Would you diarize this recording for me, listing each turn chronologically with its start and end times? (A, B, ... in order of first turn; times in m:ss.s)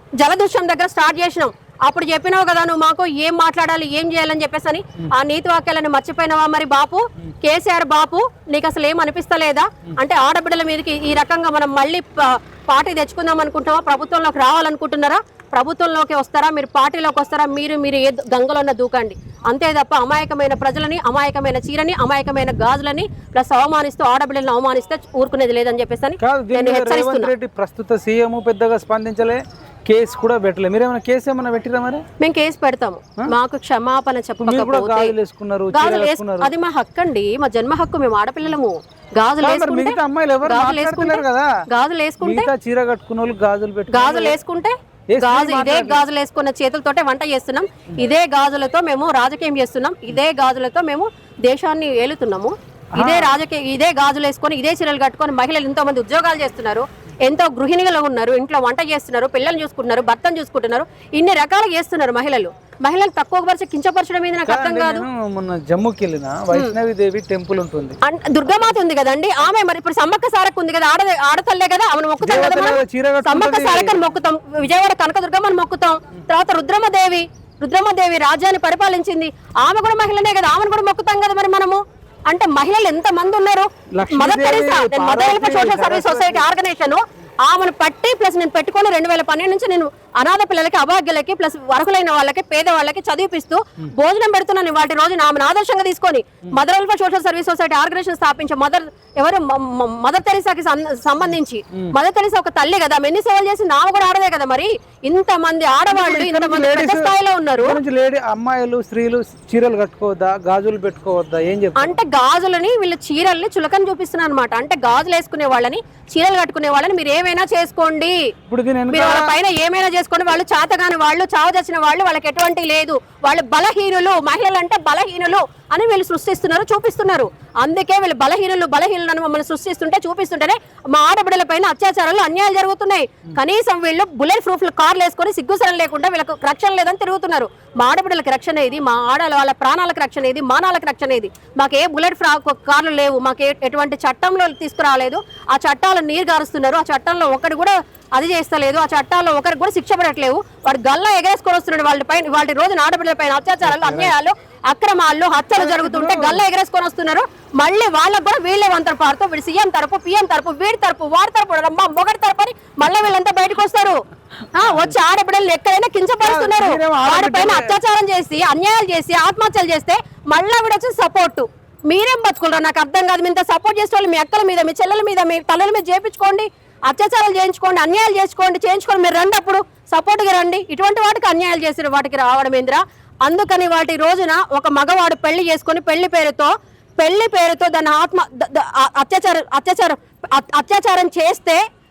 0:00.2-0:27.3 A
0:26.2-0:32.0 B
0:32.2-0:35.1 A
0:34.4-0:36.5 B
0:35.7-0:42.5 A
0:39.4-0:41.5 B
0:42.2-0:44.4 B
0:43.9-1:05.0 A
0:45.1-0:46.0 B
0:53.0-0:53.4 B
1:04.5-1:08.0 B
1:08.0-1:47.8 A
1:12.2-1:14.1 B
1:23.9-1:26.5 B
1:45.9-1:52.0 B
1:51.8-1:58.3 A
1:58.5-1:59.3 B
1:58.9-2:44.0 A
2:33.6-2:34.1 B
2:35.5-2:36.4 B
2:44.5-3:11.6 A
2:46.2-2:47.8 B